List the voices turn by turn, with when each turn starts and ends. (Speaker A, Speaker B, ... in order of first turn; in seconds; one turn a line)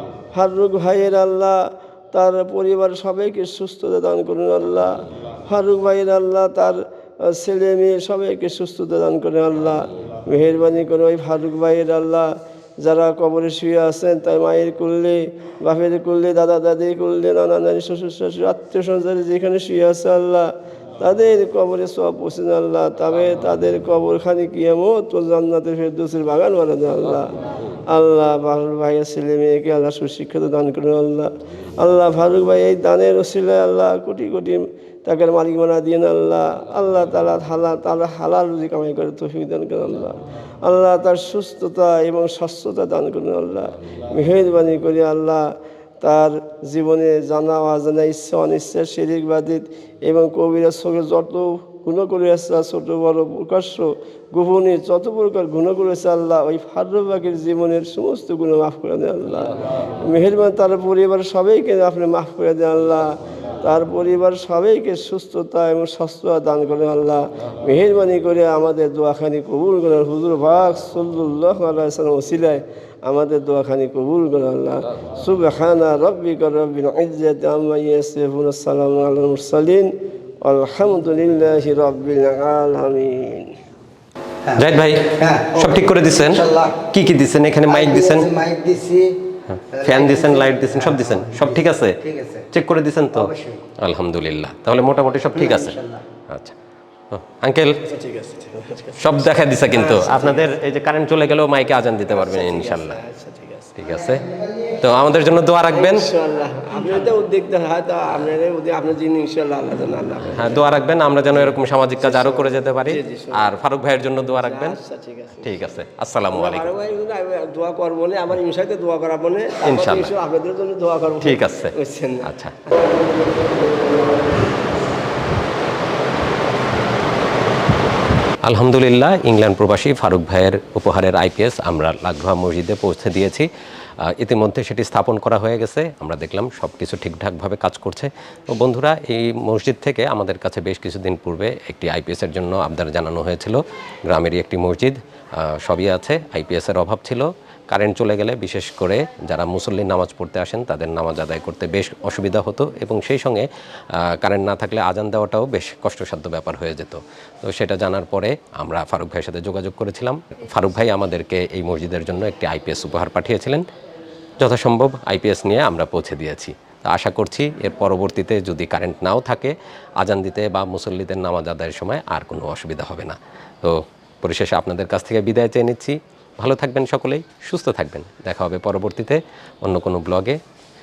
Speaker A: 0.3-27.4
Speaker A: 27.9-83.6
Speaker B: 84.5-88.3
Speaker C: 86.3-86.7
Speaker C: 87.7-89.2
Speaker B: 89.5-96.5
Speaker C: 89.8-92.4
Speaker C: 93.2-93.6
Speaker C: 95.4-96.0
Speaker B: 97.1-97.8
Speaker A: 97.9-100.5
Speaker B: 99.0-103.0
Speaker A: 102.1-103.7
Speaker B: 103.8-106.1
Speaker C: 104.2-104.8
Speaker A: 105.7-113.5
Speaker B: 110.3-114.8
Speaker A: 114.3-115.6
Speaker B: 115.4-116.7
Speaker A: 116.3-124.2
Speaker B: 119.6-120.1
Speaker B: 121.2-122.5
Speaker B: 128.4-133.5
Speaker B: 134.1-163.7
Speaker B: 164.4-180.4